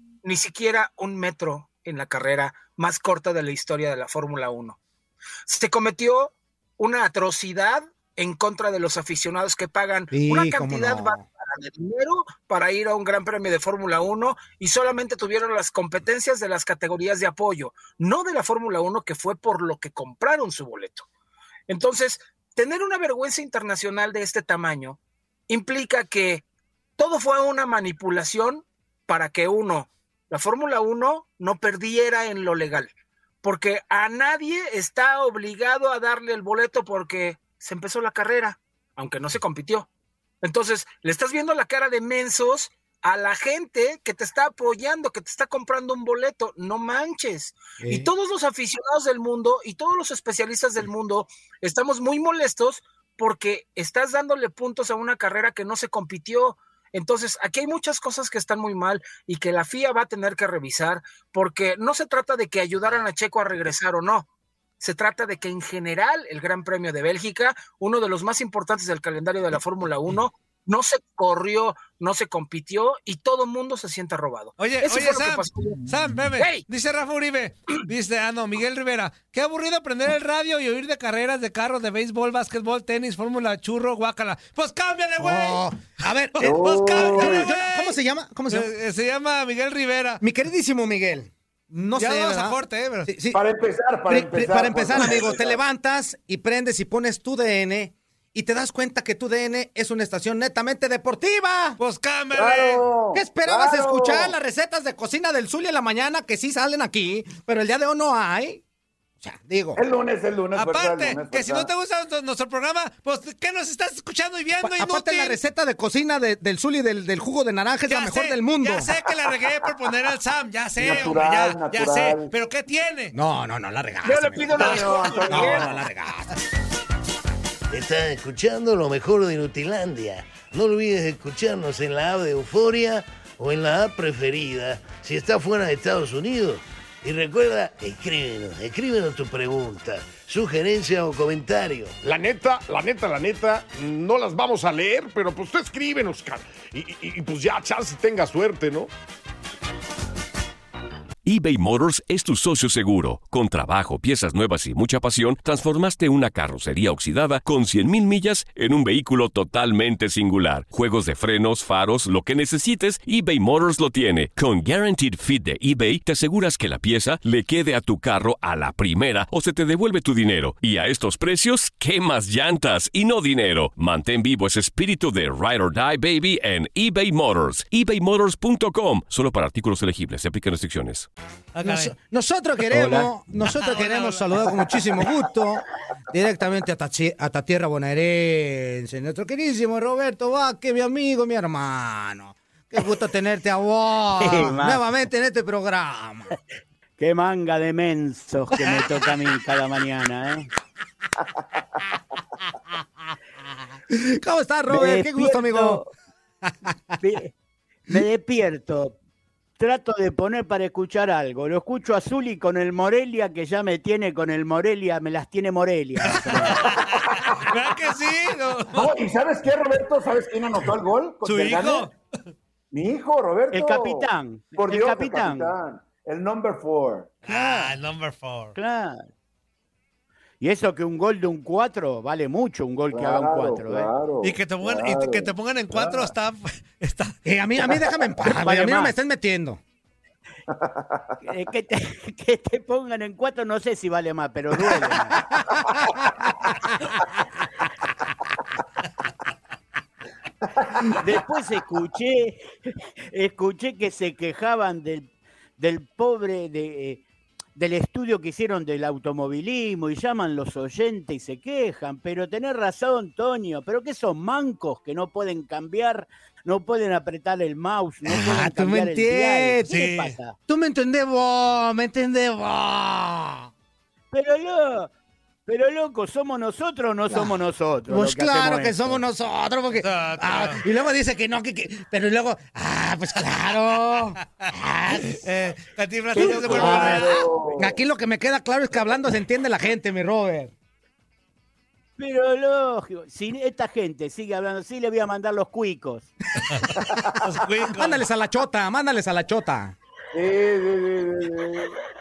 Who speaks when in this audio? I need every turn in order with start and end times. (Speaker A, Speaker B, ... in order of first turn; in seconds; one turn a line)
Speaker A: 0.2-4.8
Speaker A: 5.5-21.1
Speaker B: 10.1-11.2
Speaker A: 21.7-26.4
Speaker A: 27.0-32.9
Speaker A: 33.4-39.9
Speaker A: 40.4-64.3
Speaker B: 47.8-48.1
Speaker A: 64.8-75.8
Speaker C: 74.6-85.6
Speaker A: 76.3-76.6
Speaker B: 85.2-88.7
Speaker C: 86.4-88.0
Speaker D: 86.4-87.5
Speaker C: 88.5-90.2
Speaker B: 90.2-93.4
Speaker C: 92.0-93.1
Speaker D: 93.3-95.6
Speaker B: 94.0-101.8
Speaker C: 101.8-102.8
Speaker D: 102.3-104.3
Speaker B: 103.1-108.6
Speaker B: 109.2-109.8
Speaker D: 109.8-111.7
Speaker C: 110.5-115.4
Speaker B: 114.6-118.9
Speaker C: 117.9-123.1
Speaker D: 120.8-122.3
Speaker B: 123.1-126.4
Speaker A: 124.0-125.7
Speaker D: 124.5-125.8
Speaker C: 124.6-125.2
Speaker E: 127.7-141.9
Speaker F: 142.0-148.9
Speaker G: 151.2-181.1
Speaker C: 181.5-181.9
Speaker B: 181.6-196.3
Speaker C: 182.8-184.9
Speaker H: 194.2-194.8
Speaker H: 197.0-200.5
Speaker B: 203.9-205.8
Speaker H: 204.7-205.9
Speaker H: 207.0-207.3
Speaker H: 207.9-209.0
Speaker H: 209.6-216.7
Speaker C: 216.0-218.9
Speaker D: 216.7-217.0
Speaker D: 218.7-221.9
Speaker C: 221.2-221.9
Speaker D: 222.7-227.2
Speaker H: 223.5-225.5
Speaker C: 227.2-228.6
Speaker H: 227.3-227.7
Speaker H: 228.6-229.0
Speaker H: 230.4-233.9
Speaker D: 232.9-236.1
Speaker C: 234.2-237.2
Speaker B: 237.2-239.6
Speaker H: 238.2-238.9
Speaker D: 240.5-241.0
Speaker H: 241.2-245.2
Speaker B: 245.3-246.5
Speaker D: 250.7-250.9
Speaker H: 251.0-252.5
Speaker H: 253.1-257.0
Speaker H: 257.6-270.4
Speaker B: 268.0-269.7
Speaker C: 269.7-270.2
Speaker B: 270.5-273.5
Speaker H: 274.1-274.9
Speaker H: 275.5-279.0
Speaker B: 277.1-277.4
Speaker B: 277.9-285.2
Speaker C: 279.8-280.6
Speaker C: 285.1-287.2
Speaker D: 286.1-287.8
Speaker H: 286.2-287.0
Speaker B: 286.5-287.0
Speaker B: 287.5-290.5
Speaker H: 292.0-296.1
Speaker C: 297.2-298.0
Speaker B: 297.7-299.7
Speaker D: 300.1-301.8